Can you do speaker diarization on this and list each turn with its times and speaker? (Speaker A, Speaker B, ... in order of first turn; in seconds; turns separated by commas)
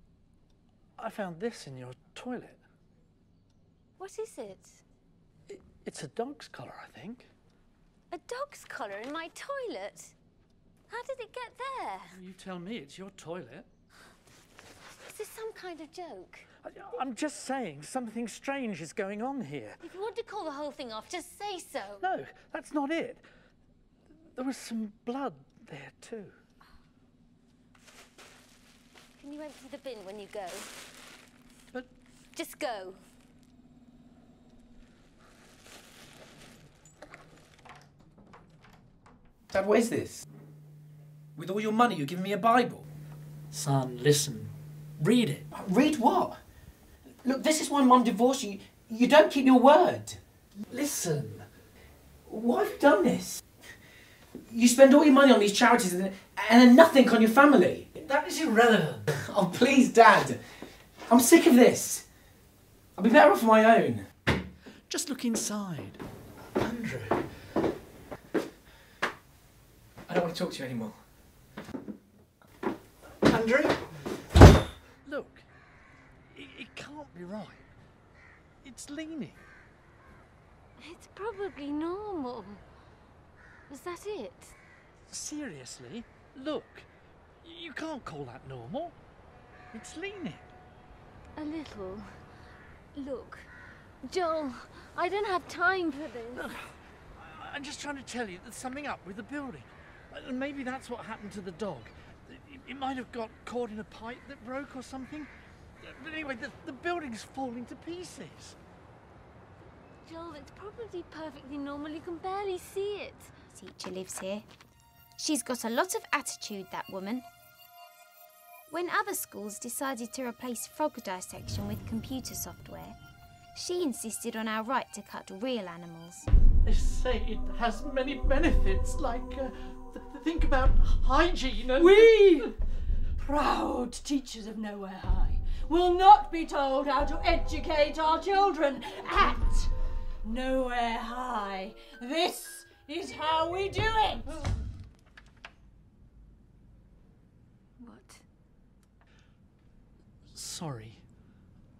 Speaker A: 1.0-2.6, Speaker B: 4.0-4.8, Speaker A: 5.5-7.3, Speaker B: 8.1-10.1, Speaker B: 10.9-12.2, Speaker A: 12.1-13.7, Speaker B: 15.0-16.4, Speaker A: 16.6-19.8, Speaker B: 19.8-22.1, Speaker A: 22.0-23.2, Speaker A: 24.3-26.4, Speaker B: 29.2-30.7, Speaker B: 32.3-33.0, Speaker C: 39.5-40.2, Speaker C: 41.4-42.9, Speaker A: 43.5-45.4, Speaker C: 45.5-46.4, Speaker C: 47.2-50.2, Speaker A: 50.7-51.5, Speaker C: 52.3-53.4, Speaker C: 54.5-57.9, Speaker A: 58.0-59.1, Speaker C: 59.1-60.4, Speaker C: 61.1-62.0, Speaker C: 63.0-64.1, Speaker A: 64.9-66.0, Speaker A: 66.6-67.2, Speaker C: 70.1-71.0, Speaker A: 73.3-73.8, Speaker A: 75.0-75.4, Speaker A: 76.3-77.7, Speaker A: 78.6-79.4, Speaker B: 80.8-82.6, Speaker B: 83.7-84.5, Speaker A: 85.1-86.9, Speaker A: 87.4-88.9, Speaker A: 89.7-90.4, Speaker B: 91.3-92.1, Speaker B: 92.9-93.5, Speaker B: 94.0-96.5, Speaker A: 96.3-105.3, Speaker A: 105.8-108.5, Speaker B: 110.0-113.3, Speaker D: 113.5-114.4, Speaker D: 115.2-117.2, Speaker D: 118.7-123.0, Speaker D: 123.5-126.3, Speaker A: 126.6-132.4, Speaker B: 131.8-132.4, Speaker E: 133.2-139.7, Speaker B: 133.6-137.4, Speaker E: 140.2-144.3, Speaker B: 147.8-148.2, Speaker A: 150.3-151.0